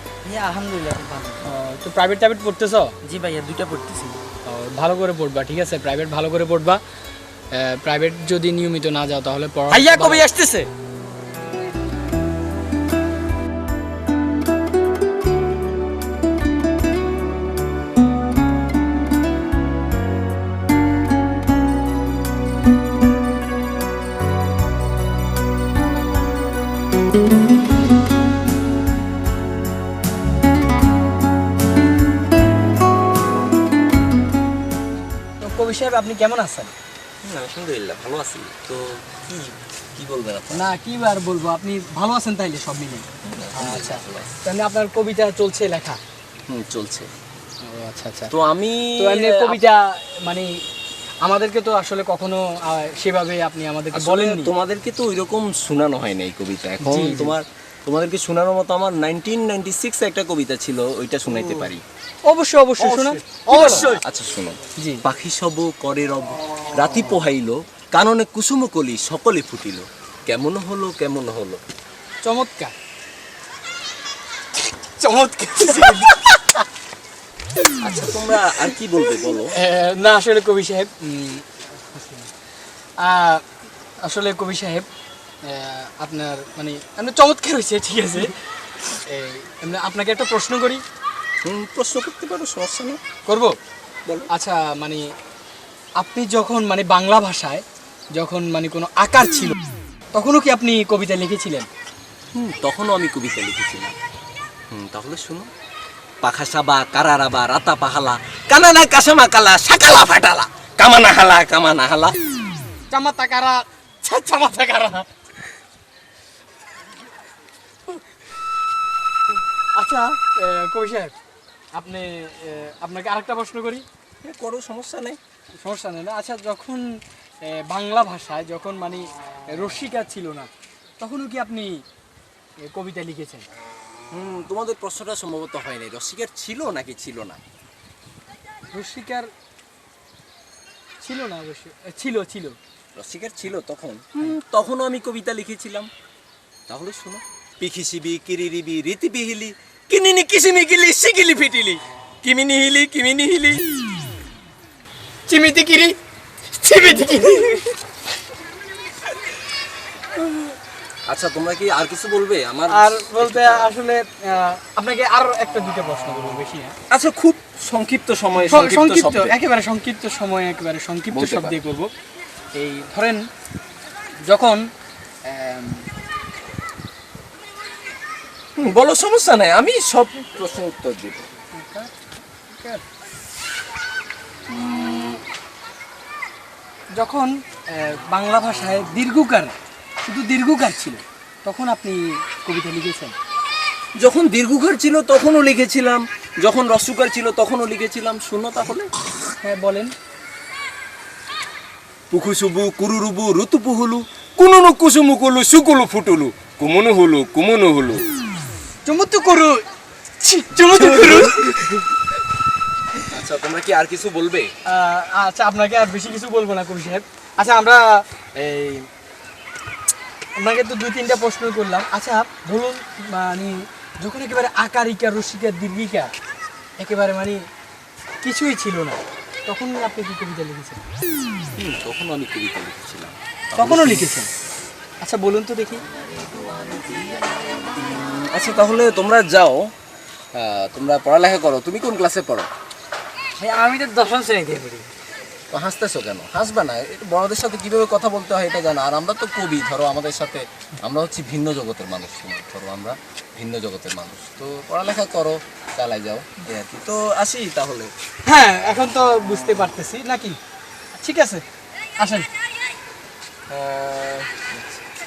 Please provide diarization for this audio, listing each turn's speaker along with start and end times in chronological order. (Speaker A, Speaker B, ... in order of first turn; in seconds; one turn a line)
Speaker A: 0.2-1.4
Speaker B: 1.4-2.9
Speaker A: 3.0-4.2
Speaker B: 4.5-6.8
Speaker B: 7.5-10.3
Speaker A: 9.7-10.7
Speaker B: 35.4-36.7
Speaker C: 37.2-39.0
Speaker B: 39.3-39.5
Speaker C: 40.0-40.7
Speaker B: 40.5-46.0
Speaker C: 43.2-44.3
Speaker C: 46.5-47.1
Speaker B: 47.6-48.3
Speaker C: 48.3-49.6
Speaker B: 49.0-50.6
Speaker B: 51.2-54.5
Speaker C: 53.9-61.8
Speaker B: 56.8-57.4
Speaker B: 62.2-64.0
Speaker A: 62.9-64.0
Speaker C: 63.5-71.6
Speaker B: 64.8-65.0
Speaker B: 72.2-72.7
Speaker B: 74.6-76.6
Speaker C: 77.8-79.6
Speaker B: 79.5-82.3
Speaker B: 83.0-83.5
Speaker B: 84.0-84.9
Speaker B: 85.4-88.3
Speaker B: 88.9-90.8
Speaker C: 91.4-93.0
Speaker B: 93.2-93.6
Speaker B: 94.3-95.1
Speaker B: 96.0-97.6
Speaker B: 98.1-99.6
Speaker B: 100.1-101.7
Speaker C: 102.3-104.0
Speaker C: 104.7-105.5
Speaker C: 106.2-112.1
Speaker B: 112.9-115.1
Speaker B: 119.8-121.1
Speaker B: 121.7-123.9
Speaker C: 124.2-125.2
Speaker B: 125.6-126.9
Speaker B: 127.4-131.8
Speaker B: 132.6-133.4
Speaker C: 134.1-137.4
Speaker B: 138.7-139.3
Speaker B: 141.0-142.6
Speaker C: 142.9-145.9
Speaker C: 146.7-153.7
Speaker B: 155.3-155.9
Speaker B: 156.6-157.8
Speaker B: 160.2-160.5
Speaker C: 161.1-163.7
Speaker B: 162.7-166.8
Speaker C: 166.9-169.4
Speaker B: 168.4-171.9
Speaker C: 171.1-171.6
Speaker B: 172.6-173.2
Speaker B: 174.2-174.6
Speaker B: 175.2-175.9
Speaker C: 178.6-181.2
Speaker B: 181.6-181.9
Speaker B: 182.5-182.8
Speaker B: 184.5-185.2
Speaker B: 186.9-193.1
Speaker C: 194.0-198.9
Speaker B: 199.4-199.9
Speaker C: 202.1-208.1
Speaker B: 208.8-209.6
Speaker B: 210.2-211.8
Speaker C: 210.8-211.8
Speaker C: 213.0-214.5
Speaker B: 214.7-218.9
Speaker B: 220.4-226.1
Speaker B: 226.8-227.4
Speaker B: 228.2-230.8
Speaker C: 231.5-234.1
Speaker B: 233.6-234.3
Speaker B: 235.0-235.8
Speaker C: 237.8-239.7
Speaker C: 240.3-242.5
Speaker B: 243.4-244.9
Speaker C: 245.5-257.9
Speaker B: 258.2-260.4
Speaker B: 260.9-261.4
Speaker B: 262.0-262.3
Speaker C: 263.5-264.8